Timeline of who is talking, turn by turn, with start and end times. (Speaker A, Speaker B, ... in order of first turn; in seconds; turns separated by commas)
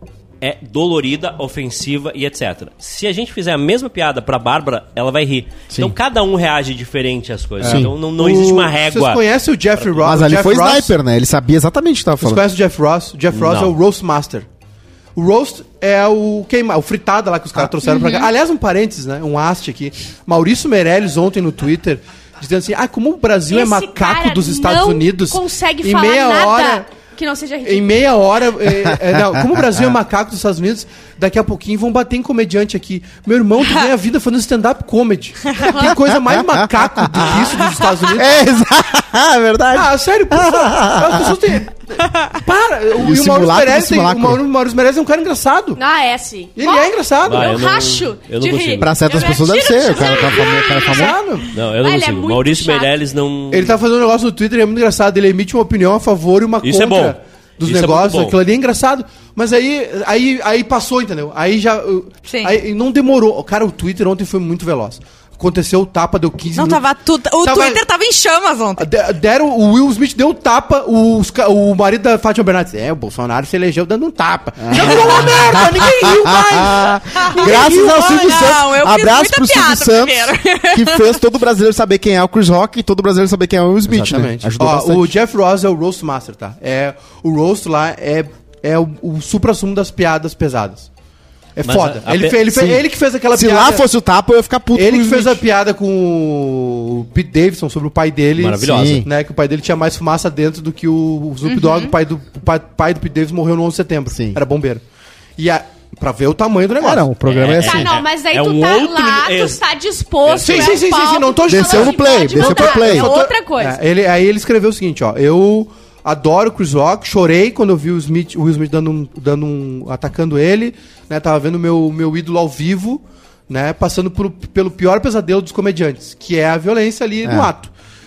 Speaker A: 0.4-9.2, Speaker B: 5.7-6.0, Speaker C: 7.6-10.9, Speaker B: 7.6-7.9, Speaker B: 10.0-12.4, Speaker C: 12.2-14.4, Speaker A: 13.3-13.7, Speaker C: 15.2-26.9, Speaker D: 17.8-18.3, Speaker E: 23.5-28.1, Speaker C: 27.6-38.4, Speaker B: 29.0-29.9, Speaker E: 35.7-35.9, Speaker B: 35.9-37.6, Speaker B: 38.1-41.4, Speaker C: 39.7-45.8, Speaker D: 42.0-42.3, Speaker B: 42.9-44.4, Speaker E: 45.8-52.9, Speaker C: 46.5-47.5, Speaker A: 47.2-48.9, Speaker B: 48.8-51.2, Speaker C: 50.8-51.5, Speaker A: 51.5-53.8, Speaker C: 53.5-66.8, Speaker A: 56.6-58.4, Speaker D: 62.2-62.5, Speaker D: 66.5-68.9, Speaker C: 67.4-67.8, Speaker C: 68.8-78.5, Speaker B: 74.6-85.1, Speaker D: 74.7-75.2, Speaker D: 77.2-81.2, Speaker C: 83.9-90.9, Speaker C: 91.5-93.8, Speaker A: 91.6-92.5, Speaker B: 92.5-95.4, Speaker C: 94.7-104.8, Speaker A: 98.3-99.0, Speaker B: 98.6-99.1, Speaker D: 101.5-101.9, Speaker B: 104.1-104.4, Speaker C: 105.4-107.1, Speaker B: 106.8-108.0, Speaker A: 107.2-109.6, Speaker E: 107.5-113.8, Speaker A: 110.2-110.8, Speaker C: 110.4-127.7, Speaker B: 111.5-113.1, Speaker B: 127.2-127.5